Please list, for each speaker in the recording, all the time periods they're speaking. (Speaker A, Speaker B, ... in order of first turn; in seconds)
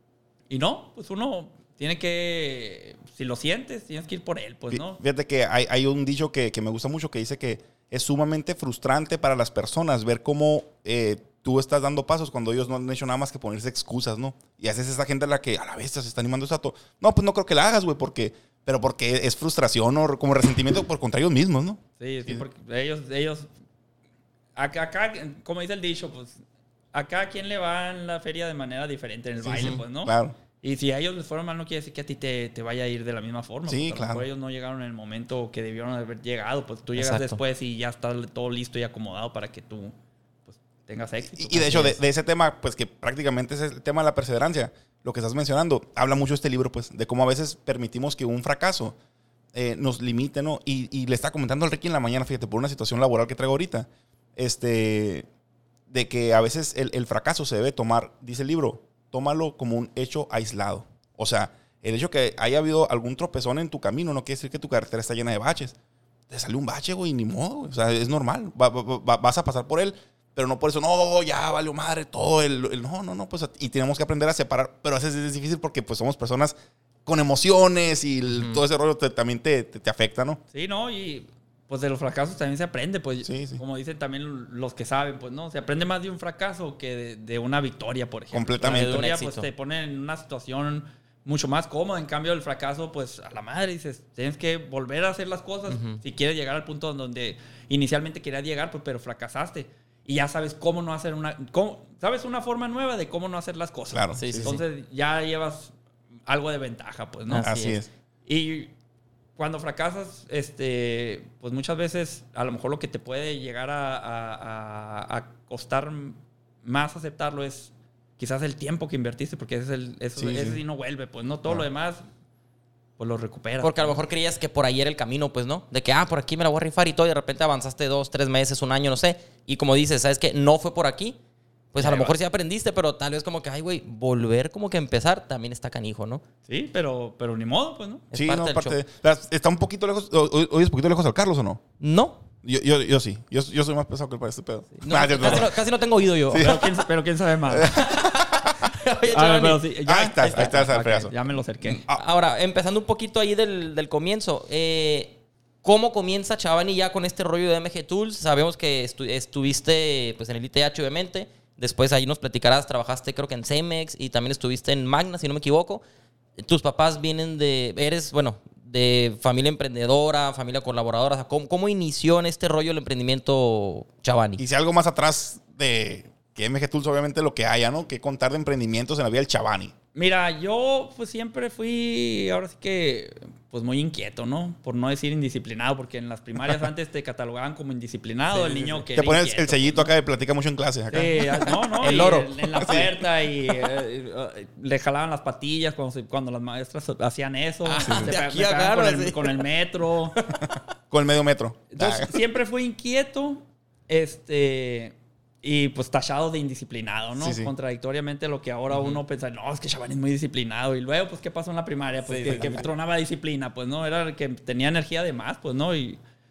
Speaker A: 0.5-5.0, 22.0-23.5, 24.6-26.4, 26.9-39.9, 40.5-42.0, 80.5-105.7, 106.3-107.5, 108.2-108.7, 109.4-122.0, 123.0-124.0, 131.8-132.1, 136.5-138.0, 146.3-148.0, 149.1-151.8, 179.9-189.9, 190.9-200.2, 201.7-216.0
Speaker B: 4.7-22.4, 29.4-30.3, 33.7-34.2, 41.3-49.0, 49.5-55.3, 55.9-65.8, 66.3-80.4, 83.2-83.6, 88.3-89.0, 103.9-104.6, 107.4-107.9, 120.2-120.6, 138.1-141.6, 142.4-145.5, 146.3-146.6, 149.8-151.1, 174.4-179.7, 188.3-193.0, 200.9-202.1, 207.2-207.5
Speaker C: 37.0-37.4, 88.6-89.5, 95.7-96.0, 104.2-104.6, 107.3-107.8, 123.6-131.2, 131.7-136.2, 138.1-138.8, 141.8-142.2, 144.8-146.6, 147.9-149.6, 151.9-165.8, 166.4-174.4, 191.8-192.3, 197.6-199.4, 200.2-200.6, 208.7-209.0, 212.0-212.7